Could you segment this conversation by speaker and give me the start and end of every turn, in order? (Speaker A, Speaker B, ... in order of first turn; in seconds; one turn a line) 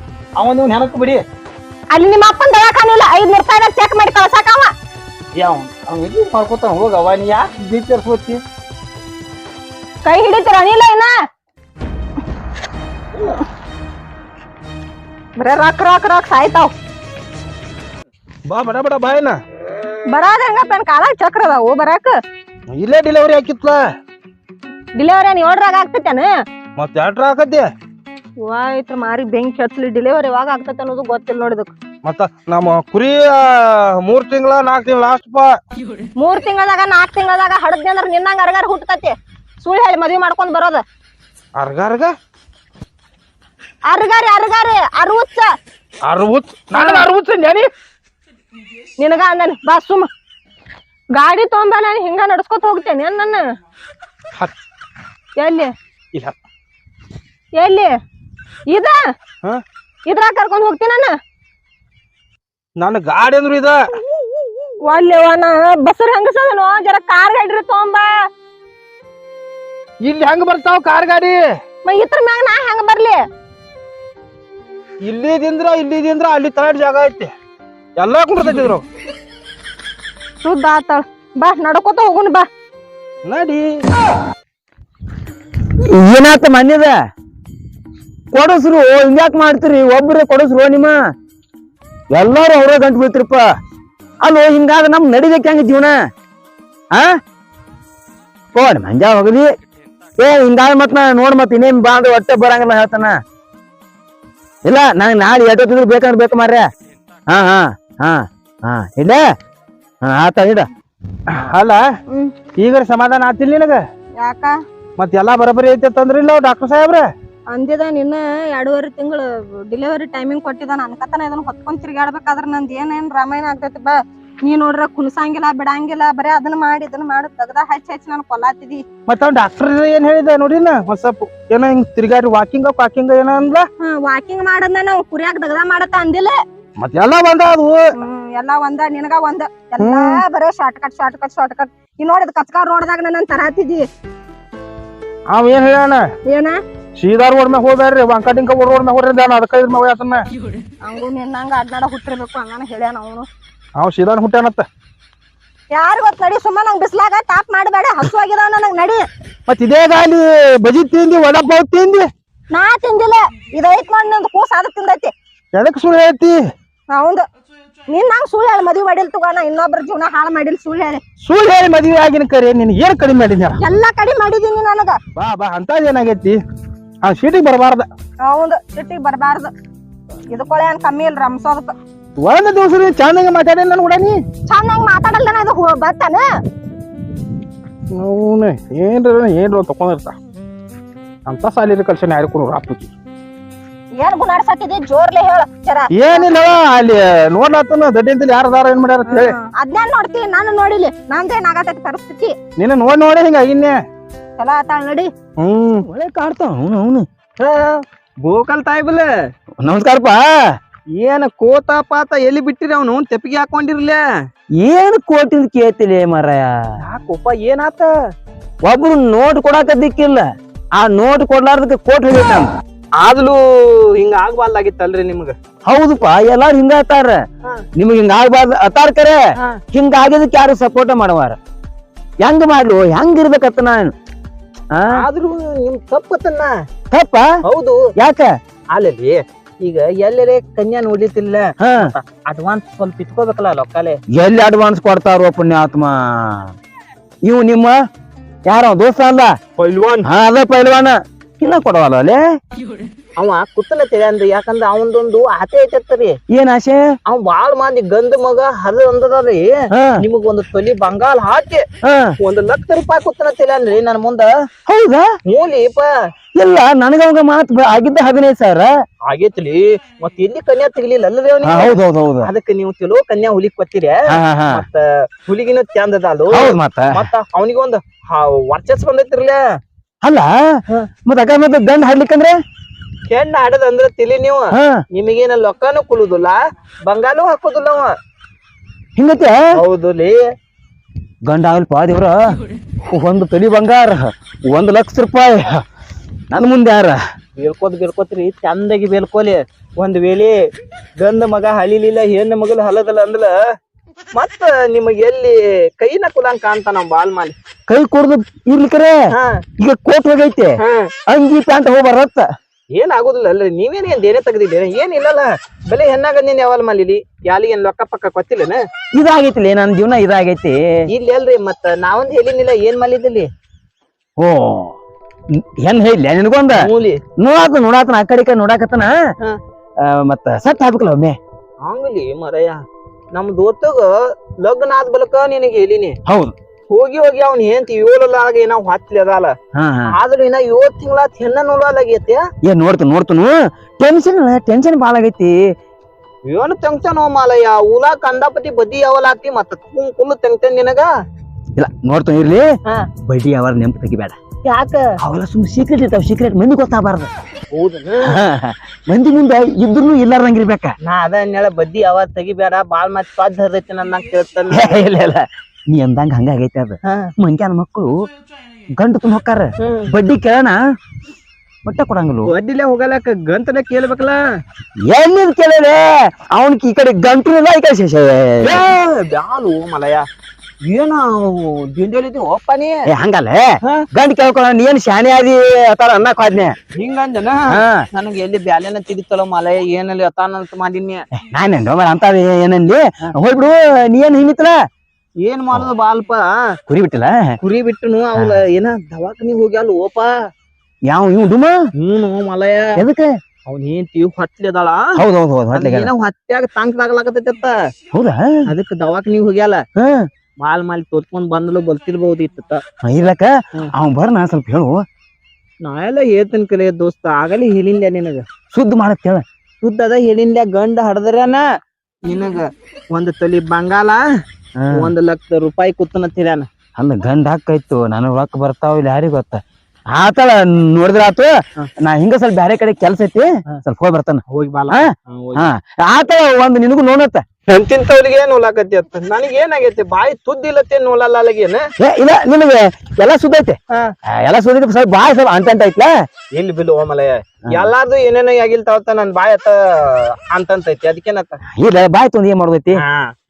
Speaker A: 0.4-1.2
Speaker B: 1.9-4.7
Speaker A: 5.3-8.4
Speaker B: 10.1-11.2
Speaker B: 15.4-16.7
Speaker C: 18.5-19.4
Speaker B: 20.1-22.2
Speaker C: 22.7-23.9
Speaker B: 25.0-26.3
Speaker C: 26.8-27.7
Speaker B: 28.4-31.7
Speaker C: 32.0-35.6
Speaker B: 36.2-40.8
Speaker C: 41.6-42.1
Speaker B: 43.9-45.5
Speaker C: 46.0-47.7
Speaker B: 46.7-47.1
Speaker B: 49.0-50.1
Speaker B: 51.1-53.4
Speaker B: 55.4-55.7
Speaker B: 57.6-57.9
Speaker B: 58.7-59.0
Speaker B: 60.1-61.2
Speaker C: 62.8-63.9
Speaker B: 64.9-68.2
Speaker C: 70.0-71.5
Speaker B: 71.9-73.2
Speaker C: 75.0-77.3
Speaker C: 78.0-78.8
Speaker B: 80.4-82.5
Speaker C: 83.2-83.8
Speaker D: 85.8-87.0
Speaker D: 88.3-91.0
Speaker D: 92.1-93.4
Speaker D: 94.2-96.0
Speaker D: 98.5-99.5
Speaker D: 100.2-103.2
Speaker D: 104.7-106.7
Speaker D: 107.3-109.2
Speaker D: 110.0-110.7
Speaker C: 111.3-111.9
Speaker C: 112.6-113.9
Speaker B: 114.2-114.6
Speaker C: 115.0-117.1
Speaker B: 117.5-128.8
Speaker C: 129.1-133.7
Speaker B: 133.8-136.4
Speaker C: 136.8-137.9
Speaker B: 138.0-143.9
Speaker C: 139.8-140.2
Speaker C: 145.3-146.1
Speaker B: 146.3-146.6
Speaker C: 146.9-150.3
Speaker B: 150.8-153.3
Speaker C: 153.8-154.7
Speaker B: 155.7-159.1
Speaker C: 159.5-162.1
Speaker B: 162.5-165.1
Speaker C: 165.5-166.4
Speaker B: 166.9-167.2
Speaker B: 167.9-171.0
Speaker C: 171.2-173.6
Speaker B: 173.6-175.0
Speaker C: 175.2-176.4
Speaker C: 177.0-177.9
Speaker B: 178.2-179.5
Speaker B: 180.3-181.8
Speaker C: 182.2-184.2
Speaker B: 184.5-186.3
Speaker C: 187.9-190.2
Speaker C: 191.3-192.9
Speaker B: 194.0-196.4
Speaker C: 195.9-199.4
Speaker B: 199.1-202.4
Speaker C: 202.6-203.8
Speaker B: 204.4-205.1
Speaker C: 205.4-205.9
Speaker D: 205.9-207.1
Speaker E: 207.4-209.3
Speaker D: 209.6-210.3
Speaker E: 210.9-214.2
Speaker D: 214.6-216.5
Speaker E: 216.8-217.9
Speaker D: 218.6-220.3
Speaker D: 220.8-222.5
Speaker E: 223.0-225.3
Speaker D: 225.7-227.2
Speaker D: 227.8-229.2
Speaker D: 229.7-231.4
Speaker D: 232.2-233.9
Speaker D: 234.7-235.0
Speaker E: 234.9-236.7
Speaker D: 236.9-237.4
Speaker E: 237.4-237.9
Speaker D: 238.0-238.3
Speaker E: 238.7-244.0
Speaker D: 241.6-241.9
Speaker D: 244.1-246.6
Speaker D: 247.2-247.8
Speaker D: 248.5-249.4
Speaker E: 249.6-250.1
Speaker D: 250.1-252.2
Speaker E: 253.2-256.2
Speaker D: 256.3-256.8
Speaker E: 257.1-261.7
Speaker D: 259.7-260.0
Speaker D: 261.8-262.1
Speaker E: 262.2-264.5
Speaker D: 264.7-265.2
Speaker E: 265.3-266.1
Speaker D: 266.4-268.7
Speaker E: 269.1-279.6
Speaker D: 271.4-272.3
Speaker D: 274.1-274.6
Speaker D: 276.3-277.1
Speaker D: 280.0-280.4
Speaker D: 281.1-282.4
Speaker E: 283.1-288.0
Speaker D: 284.5-284.8
Speaker D: 289.0-289.4
Speaker E: 289.5-290.2
Speaker D: 291.3-292.2
Speaker D: 292.8-295.6
Speaker D: 296.3-297.0
Speaker E: 297.4-300.4
Speaker E: 301.0-303.6
Speaker E: 304.1-307.4
Speaker D: 307.7-312.3
Speaker E: 309.1-309.4
Speaker E: 310.6-310.9
Speaker E: 312.7-318.6
Speaker D: 318.9-320.9
Speaker E: 320.9-323.3
Speaker D: 324.2-324.8
Speaker D: 325.3-328.9
Speaker E: 326.5-327.0
Speaker D: 329.8-331.2
Speaker E: 331.6-336.0
Speaker D: 336.1-336.4
Speaker E: 336.7-339.4
Speaker D: 339.6-339.9
Speaker E: 339.9-342.3
Speaker D: 342.4-345.5
Speaker E: 346.2-350.9
Speaker D: 351.6-352.5
Speaker D: 353.0-354.2
Speaker E: 354.4-355.0
Speaker D: 355.0-357.1
Speaker E: 357.5-358.2
Speaker D: 358.0-360.8
Speaker E: 360.8-364.7
Speaker D: 364.5-367.9
Speaker E: 366.9-367.1
Speaker D: 368.8-370.6
Speaker E: 369.6-369.9
Speaker D: 371.6-372.3
Speaker E: 372.2-374.2
Speaker D: 374.8-378.6
Speaker E: 378.4-380.1
Speaker E: 380.6-382.9
Speaker D: 382.9-386.6
Speaker E: 386.7-391.1
Speaker D: 387.5-387.9
Speaker D: 391.2-394.6
Speaker E: 395.2-396.6
Speaker D: 396.7-397.4
Speaker E: 397.4-400.3
Speaker D: 398.1-398.4
Speaker D: 400.9-401.5
Speaker E: 401.8-402.8
Speaker D: 402.8-403.1
Speaker E: 403.5-404.9
Speaker D: 405.0-405.9
Speaker E: 405.5-407.7
Speaker D: 407.9-408.4
Speaker E: 408.5-409.6
Speaker D: 409.8-410.1
Speaker E: 410.4-412.6
Speaker D: 412.8-414.8
Speaker E: 415.6-418.2
Speaker D: 418.5-419.2
Speaker E: 419.6-421.4
Speaker E: 422.0-424.0
Speaker D: 424.6-424.9
Speaker E: 424.7-426.5
Speaker D: 426.8-429.4
Speaker D: 429.9-437.2
Speaker E: 434.3-435.5
Speaker E: 437.5-441.7
Speaker D: 441.8-445.9
Speaker E: 446.3-451.4
Speaker D: 451.5-452.8
Speaker E: 452.8-453.1